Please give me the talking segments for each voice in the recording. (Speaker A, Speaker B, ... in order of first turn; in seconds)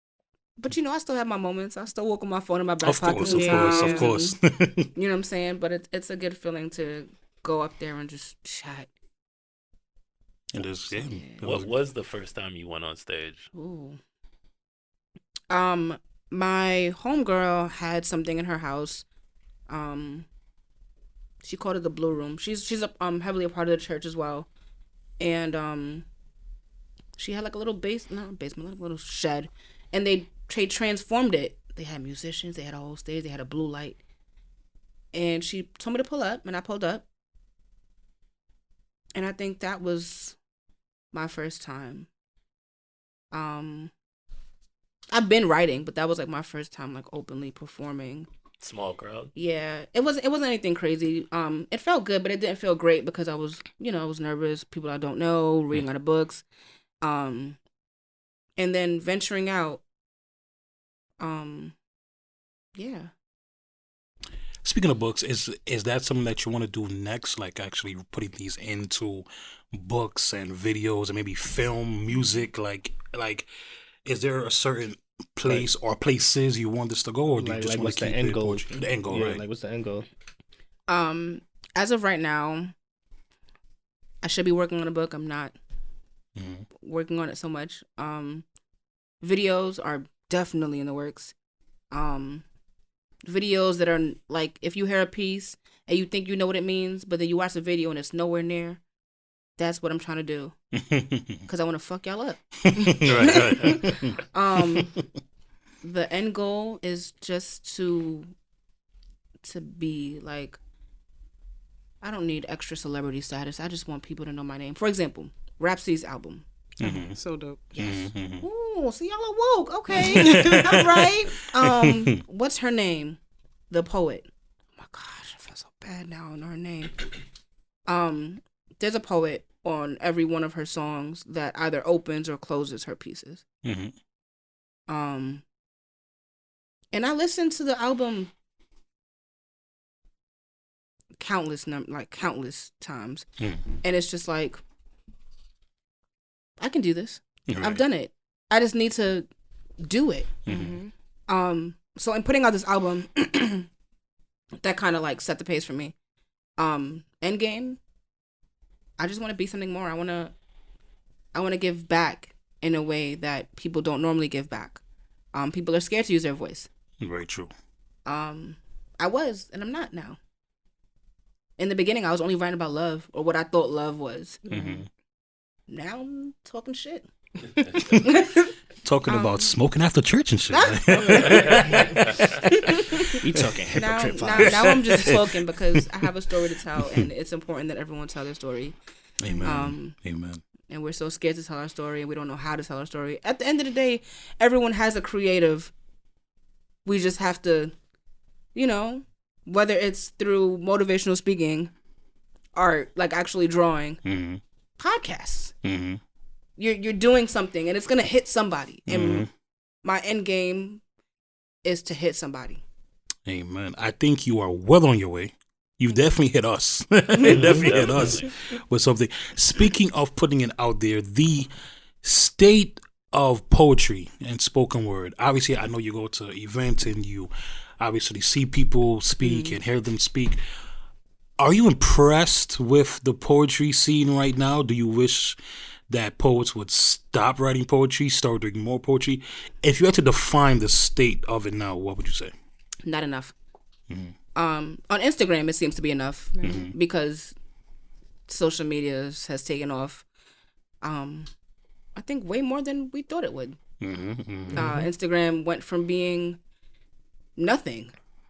Speaker A: 0.6-4.3, 5.0-8.9, 10.9-11.4, 13.5-14.0, 15.5-19.1, 19.7-20.3, 21.4-24.5, 25.2-26.1, 27.2-34.0, 35.1-37.0, 39.1-40.4, 41.1-42.1, 43.3-43.9, 45.1-48.3, 49.4-56.4, 57.0-57.6, 58.6-59.8, 61.2-61.7, 62.8-63.1, 80.9-82.7, 84.2-85.5, 86.8-88.5, 89.2-91.3, 91.9-92.5, 93.2-98.8, 99.6-100.5, 101.5-104.9, 105.8-108.3, 109.4-110.6, 112.0-116.5, 117.7-123.2, 123.7-126.9, 127.9-133.4, 134.9-135.4, 136.9-138.3, 141.2-143.2, 143.8-144.6, 146.6-149.3, 149.8-150.3, 151.3-153.7, 154.6-155.9, 156.6-157.8, 159.0-160.3, 161.3-164.8, 165.3-166.7, 168.1-170.2, 171.6-174.4, 175.7-177.1, 178.0-178.5, 179.1-179.6, 180.5-183.2, 183.8-188.8, 189.4-189.9, 190.7-195.7, 196.8-197.7, 198.6-201.7, 202.6-204.0, 204.8-205.5, 206.6-209.3, 209.8-210.8, 211.6-212.6, 242.8-243.3, 244.3-247.3, 248.3-250.0, 250.8-251.3, 251.9-253.6, 254.5-256.4, 257.4-257.9
Speaker B: 2.8-4.9, 10.5-11.7, 64.6-73.5, 74.0-79.4, 86.4-86.7, 100.8-101.4, 102.7-104.2, 116.8-117.2, 117.8-118.5, 120.0-121.1, 121.7-122.0, 133.6-133.9, 147.5-147.8, 150.5-150.8, 167.0-167.5, 174.5-174.9, 177.8-178.1, 178.8-182.5, 184.3-185.2, 189.2-190.4, 204.0-204.4, 205.6-206.0, 208.9-209.3, 213.3-221.5, 222.0-230.4, 231.4-235.4, 235.9-242.3, 246.4-246.7, 253.8-254.6
Speaker C: 3.2-4.1, 116.9-117.7, 120.2-120.6, 150.5-150.9, 174.5-174.8, 229.2-229.6, 246.4-246.7
Speaker D: 11.4-13.5, 48.6-49.3, 181.3-181.6, 217.2-218.3
Speaker E: 77.3-80.1, 183.1-185.1, 254.5-254.8